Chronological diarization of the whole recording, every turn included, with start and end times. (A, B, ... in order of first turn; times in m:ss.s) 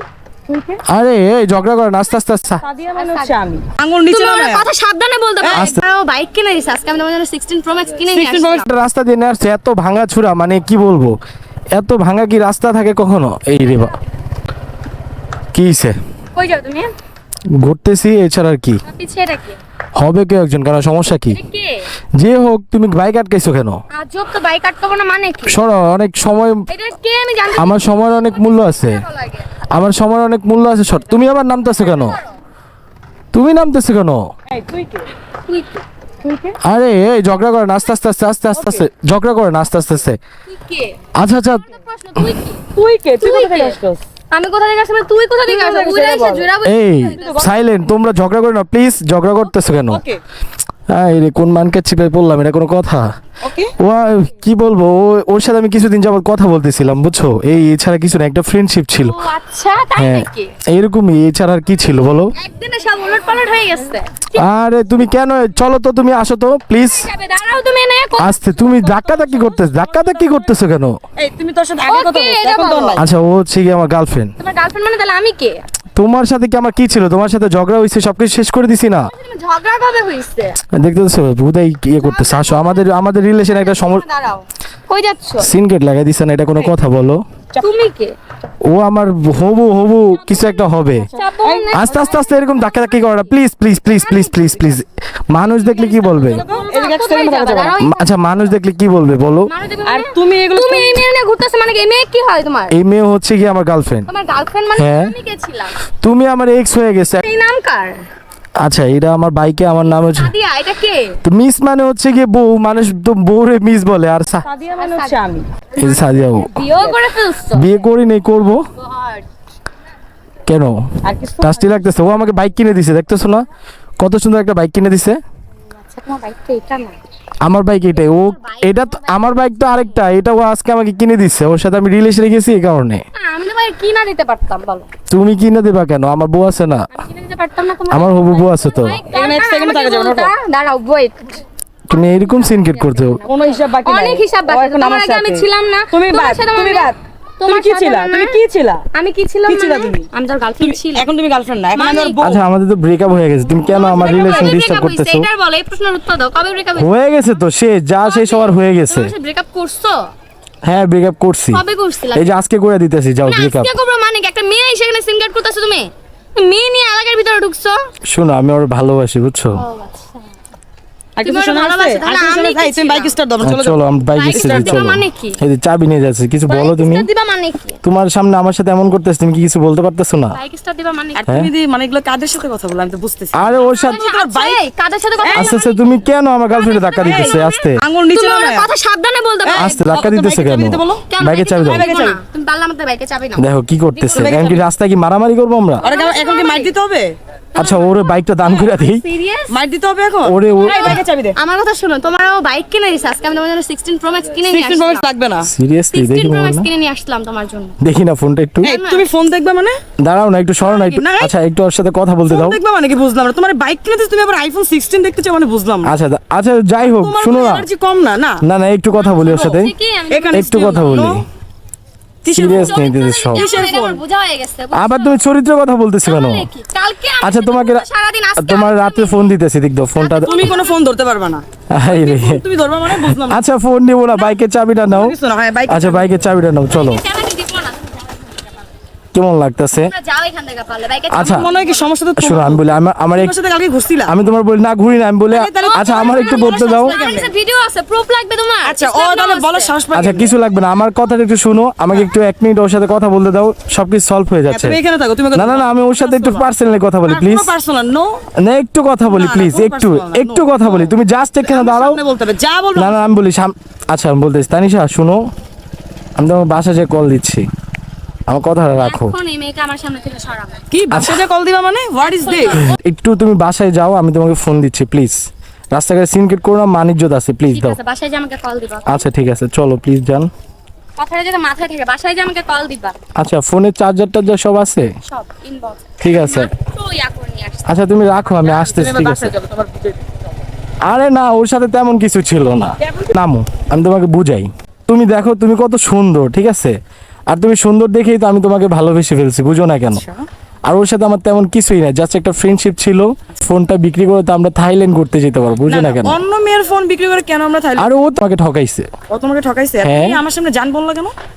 0:00.5-0:00.8 A
0:00.9-0:02.6 B
0:02.6-0:04.7 A
0:02.9-0:03.4 C
0:04.1-0:08.7 C
0:05.4-0:05.8 A
0:05.5-0:05.8 B
0:08.1-0:08.6 A
0:08.6-0:11.1 B
0:11.7-0:13.9 B
0:15.5-0:16.0 B
0:16.4-0:16.9 C
0:17.5-0:18.8 B
0:18.8-0:19.6 C
0:20.0-0:21.4 B
0:21.3-0:21.9 C
0:22.2-0:23.8 B
0:23.9-0:25.6 C
0:25.5-0:26.7 B
0:26.7-0:29.4 C
0:27.5-0:29.0 B
0:29.7-0:32.2 B
0:31.8-0:32.1 C
0:33.3-0:34.3 B
0:34.5-0:35.1 A
0:35.5-0:35.8 C
0:36.2-0:36.6 A
0:36.6-0:40.2 B
0:38.5-0:38.8 A
0:40.5-0:42.7 C
0:41.2-0:42.4 B
0:42.7-0:44.0 A
0:43.2-0:43.8 C
0:44.3-0:47.5 C
0:45.5-0:46.5 A
0:46.6-0:50.0 B
0:47.1-0:47.5 A
0:49.9-0:50.2 A
0:50.9-0:53.1 B
0:53.4-0:53.7 A
0:53.8-0:59.2 B
0:59.0-1:00.5 C
1:00.0-1:02.3 B
1:02.3-1:04.4 C
1:04.4-1:07.1 B
1:06.8-1:08.8 C
1:08.2-1:11.0 B
1:08.6-1:10.4 A
1:11.2-1:13.0 A
1:11.8-1:13.0 C
1:13.0-1:14.3 B
1:14.4-1:15.6 C
1:16.0-1:19.1 B
1:19.1-1:20.6 C
1:20.7-1:24.0 B
1:22.0-1:25.5 C
1:25.4-1:27.2 B
1:27.6-1:28.2 C
1:28.7-1:31.1 B
1:30.2-1:33.3 C
1:31.1-1:31.9 A
1:31.7-1:36.4 B
1:33.9-1:34.8 C
1:35.6-1:38.1 C
1:36.2-1:37.8 A
1:37.8-1:39.5 B
1:39.5-1:42.7 C
1:39.8-1:41.0 A
1:42.7-1:44.1 B
1:44.1-1:45.8 C
1:44.8-1:45.1 B
1:46.0-1:47.2 B
1:47.2-1:48.0 C
1:48.6-1:50.3 B
1:49.9-1:51.2 C
1:51.2-1:54.4 B
1:54.4-1:55.4 A
1:54.7-1:55.2 C
1:55.8-1:57.9 C
1:55.8-1:56.5 B
1:57.5-1:58.6 B
1:58.8-1:59.2 C
2:00.4-2:00.8 B
2:01.0-2:01.8 A
2:01.4-2:03.4 B
2:04.0-2:05.2 B
2:05.8-2:07.0 C
2:07.4-2:13.0 B
2:07.9-2:10.0 C
2:13.1-2:14.9 C
2:15.1-2:16.9 B
2:16.9-2:28.4 C
2:17.9-2:19.0 B
2:19.1-2:20.3 A
2:21.9-2:23.2 B
2:23.2-2:28.8 A
2:28.9-2:31.1 C
2:29.5-2:30.1 A
2:30.6-2:32.4 A
2:31.7-2:32.2 C
2:32.2-2:35.3 B
2:33.7-2:36.9 C
2:33.9-2:34.6 A
2:36.8-2:39.1 B
2:38.0-2:40.1 C
2:40.6-2:43.7 B
2:41.5-2:42.4 C
2:43.2-2:47.8 C
2:48.1-2:49.6 B
2:49.6-2:50.2 C
2:51.2-2:53.8 A
2:51.2-2:53.1 C
2:53.4-2:57.1 B
2:54.1-2:55.4 C
2:54.3-2:55.0 A
2:56.5-2:57.8 C
2:57.8-3:00.4 B
3:00.3-3:01.2 C
3:01.1-3:04.6 A
3:03.3-3:04.0 B
3:03.6-3:06.0 C
3:05.2-3:05.6 A
3:05.3-3:07.8 B
3:06.5-3:10.0 C
3:07.0-3:08.7 A
3:09.4-3:11.1 A
3:09.5-3:11.9 B
3:11.1-3:14.5 C
3:11.6-3:12.2 A
3:13.4-3:15.8 B
3:14.1-3:14.6 A
3:15.8-3:16.7 C
3:15.8-3:17.1 A
3:17.5-3:19.6 C
3:17.6-3:19.0 B
3:19.5-3:21.4 A
3:20.2-3:21.0 B
3:20.6-3:25.0 C
3:24.4-3:25.5 A
3:25.4-3:26.7 B
3:25.9-3:27.8 C
3:27.8-3:28.7 B
3:28.6-3:29.8 A
3:28.6-3:29.0 C
3:30.0-3:32.6 B
3:30.6-3:31.3 A
3:32.3-3:35.9 A
3:35.8-3:37.7 B
3:36.8-3:38.4 A
3:38.4-3:39.7 B
3:38.9-3:40.9 C
3:40.1-3:41.2 A
3:40.3-3:41.2 B
3:42.2-3:42.8 A
3:42.3-3:43.4 B
3:42.4-3:45.3 C
3:43.3-3:44.0 A
3:44.7-3:46.5 B
3:46.0-3:49.4 C
3:47.2-3:47.8 B
3:48.4-3:50.5 B
3:50.0-3:50.8 C
3:50.2-3:53.4 A
3:51.7-3:52.4 B
3:52.9-3:55.1 B
3:54.9-3:56.3 A
3:55.7-3:57.0 B
3:56.7-3:58.5 C
3:59.1-3:59.9 B
3:59.7-4:01.9 C
4:01.1-4:01.5 B
4:01.2-4:04.1 A
4:02.2-4:03.3 B
4:04.0-4:06.9 B
4:05.3-4:07.3 A
4:05.6-4:09.7 C
4:08.6-4:10.3 A
4:09.9-4:14.8 B
4:14.5-4:16.5 A
4:15.3-4:17.5 B
4:17.0-4:18.2 A
4:18.4-4:22.0 B
4:19.1-4:23.0 A
4:22.8-4:25.2 B
4:26.2-4:27.4 B
4:28.3-4:29.2 B
4:28.8-4:30.6 C
4:30.7-4:32.6 A
4:30.9-4:31.2 B
4:32.0-4:32.8 C
4:32.5-4:37.8 B
4:37.5-4:39.1 C
4:38.9-4:40.3 B
4:41.0-4:43.0 C
4:43.2-4:44.9 B
4:45.0-4:48.5 C
4:46.0-4:46.5 B
4:47.6-4:49.3 B
4:48.4-4:50.1 A
4:50.9-4:56.8 B
4:57.3-5:00.0 B
4:59.9-5:00.2 A
5:00.6-5:06.2 B
5:05.6-5:07.9 A
5:07.8-5:08.9 B
5:09.1-5:11.1 A
5:09.8-5:10.2 B